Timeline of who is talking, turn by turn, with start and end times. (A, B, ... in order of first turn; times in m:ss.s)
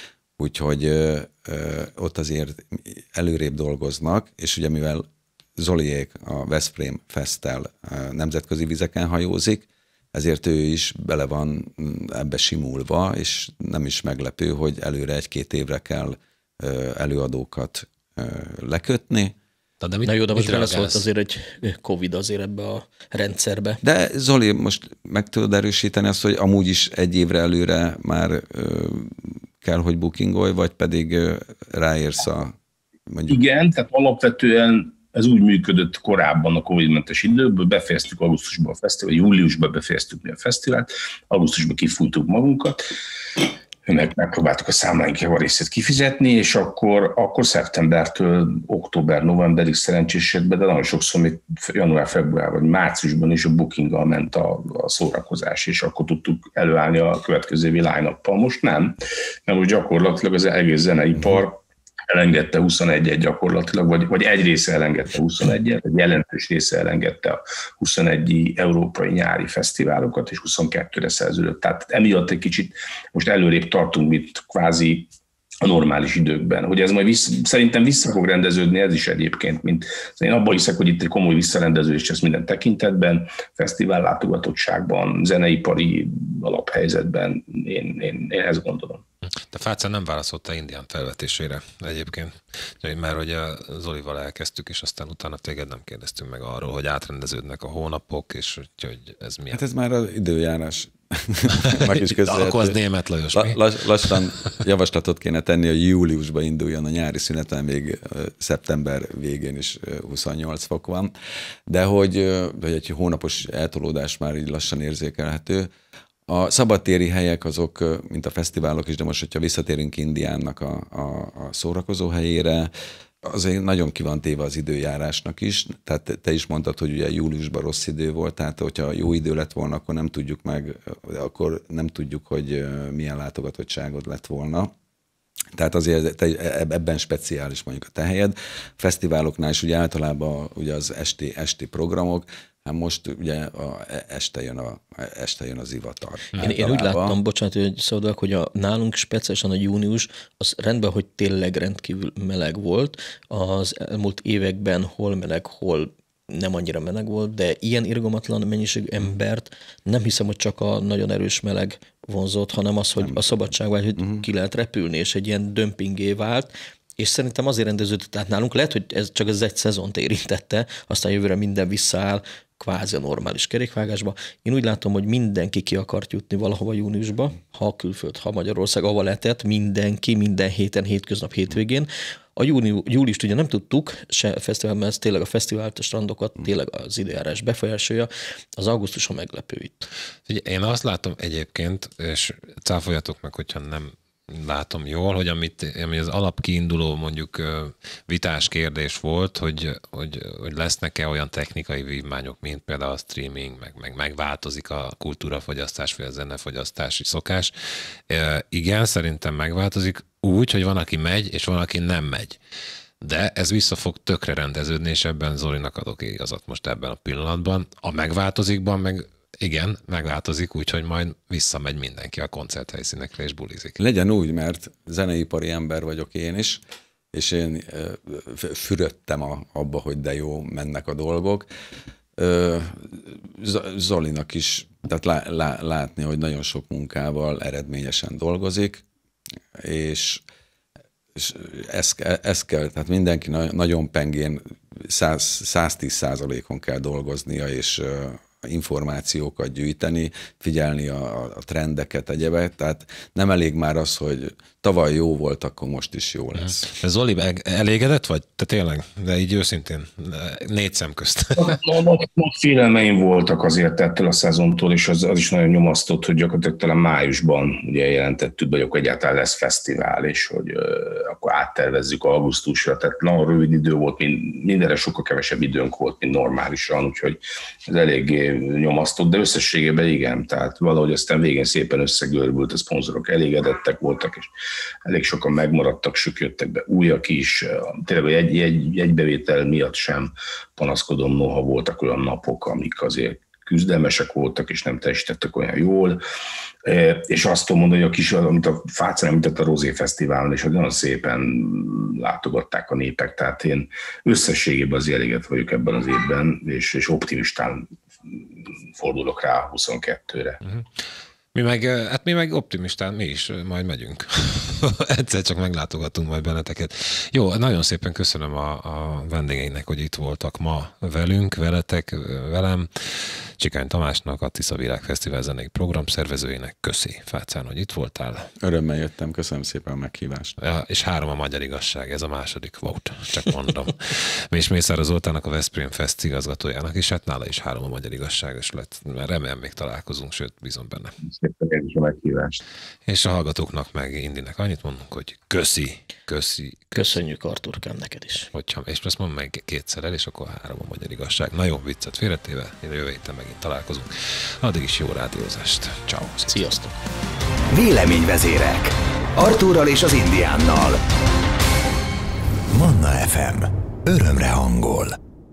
0:00.4-0:19.4 A
0:19.8-0:21.0 B
0:20.0-0:23.8 C
0:23.8-0:32.6 A
0:33.1-0:33.4 A
0:33.3-0:42.8 D
0:43.9-0:59.0 D
0:59.5-1:15.1 D
1:15.6-1:29.0 D
1:29.5-1:39.6 B
1:39.5-1:42.8 A
1:41.6-1:44.2 B
1:43.3-1:51.1 A
1:51.7-1:55.7 A
1:56.3-2:02.7 A
2:03.2-2:14.7 A
2:15.6-2:27.2 A
2:26.4-3:09.9 C
2:43.0-2:43.4 A
2:44.0-2:44.2 A
3:10.3-3:27.5 B
3:28.1-3:32.4 B
3:33.0-3:43.8 B
3:43.8-3:46.6 A
3:47.1-3:51.5 A
3:52.2-3:58.8 A
3:59.6-4:00.2 A
4:01.2-4:16.6 A
4:16.4-4:21.6 B
4:21.4-4:44.3 D
4:44.9-4:56.0 D
4:56.6-5:08.2 D
5:08.8-5:10.4 D
5:11.3-5:28.3 B
5:28.4-5:30.3 A
5:30.4-5:41.0 B
5:41.1-5:42.4 D
5:42.9-5:47.0 B
5:46.8-5:48.3 C
5:48.3-5:56.4 B
5:56.3-5:56.8 C
5:57.5-6:00.8 E
6:02.5-6:05.0 E